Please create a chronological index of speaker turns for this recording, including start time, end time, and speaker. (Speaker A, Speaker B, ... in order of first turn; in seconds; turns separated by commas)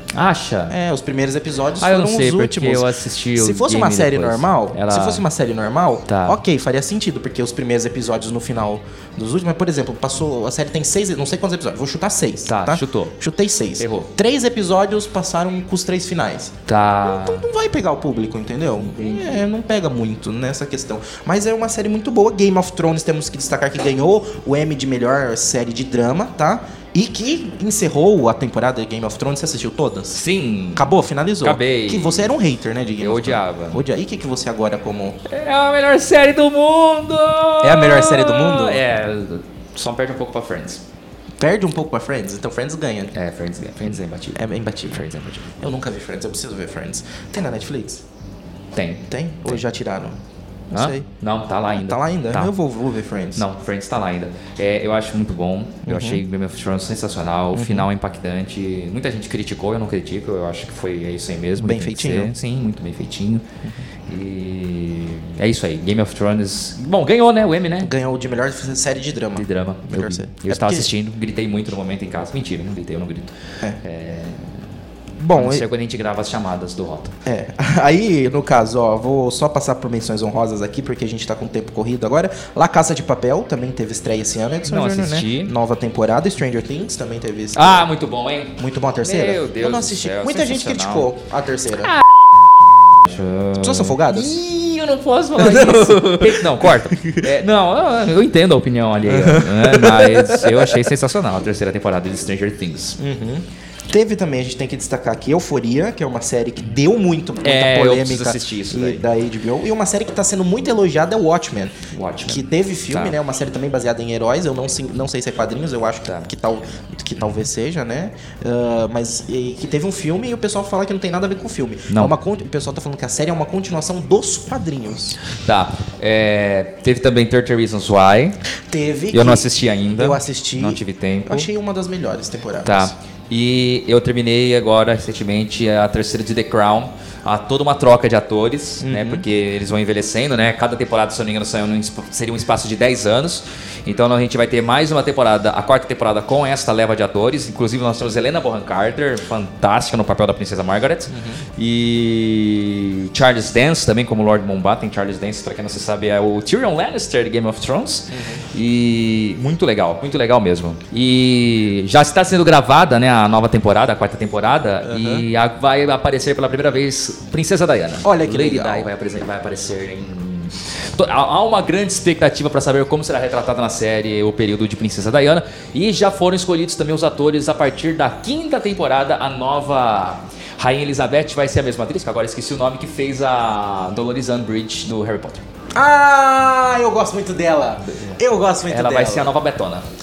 Speaker A: 0.1-0.8, Speaker B: 0.7-30.2, Speaker A: 1.8-5.2, Speaker A: 6.1-6.4, Speaker A: 12.4-13.2, Speaker A: 13.8-14.1, Speaker A: 16.7-17.4, Speaker A: 18.8-19.4, Speaker A: 30.1-30.9, Speaker B: 30.7-35.2, Speaker A: 31.4-32.3, Speaker A: 33.0-33.8, Speaker A: 35.2-40.8, Speaker B: 37.6-38.8, Speaker B: 41.4-43.1, Speaker A: 43.1-45.5, Speaker B: 44.3-45.0, Speaker B: 45.6-48.0, Speaker A: 48.7-49.6, Speaker B: 49.1-50.2, Speaker B: 50.7-51.1, Speaker A: 50.7-52.5, Speaker B: 51.7-53.4, Speaker A: 53.4-63.5, Speaker B: 55.9-56.2, Speaker B: 57.5-57.9, Speaker B: 61.6-62.3, Speaker A: 64.1-67.9, Speaker B: 67.8-70.9, Speaker A: 69.3-74.6, Speaker B: 75.2-75.7, Speaker A: 75.3-77.1, Speaker B: 77.2-87.9, Speaker A: 84.7-85.5, Speaker A: 87.5-91.1, Speaker B: 88.6-91.9, Speaker A: 93.0-103.0, Speaker B: 93.5-94.4, Speaker B: 95.3-97.3, Speaker B: 99.0-100.9, Speaker B: 103.0-125.2, Speaker A: 107.4-109.0, Speaker A: 111.9-113.2, Speaker A: 116.0-116.3, Speaker A: 121.9-122.1, Speaker A: 125.3-128.4, Speaker B: 128.7-132.9, Speaker A: 129.1-131.5, Speaker A: 132.6-185.4, Speaker B: 138.8-139.2, Speaker B: 151.1-151.4, Speaker B: 158.1-158.4, Speaker B: 164.8-165.2, Speaker B: 168.0-168.9, Speaker B: 185.7-189.3, Speaker A: 187.8-189.8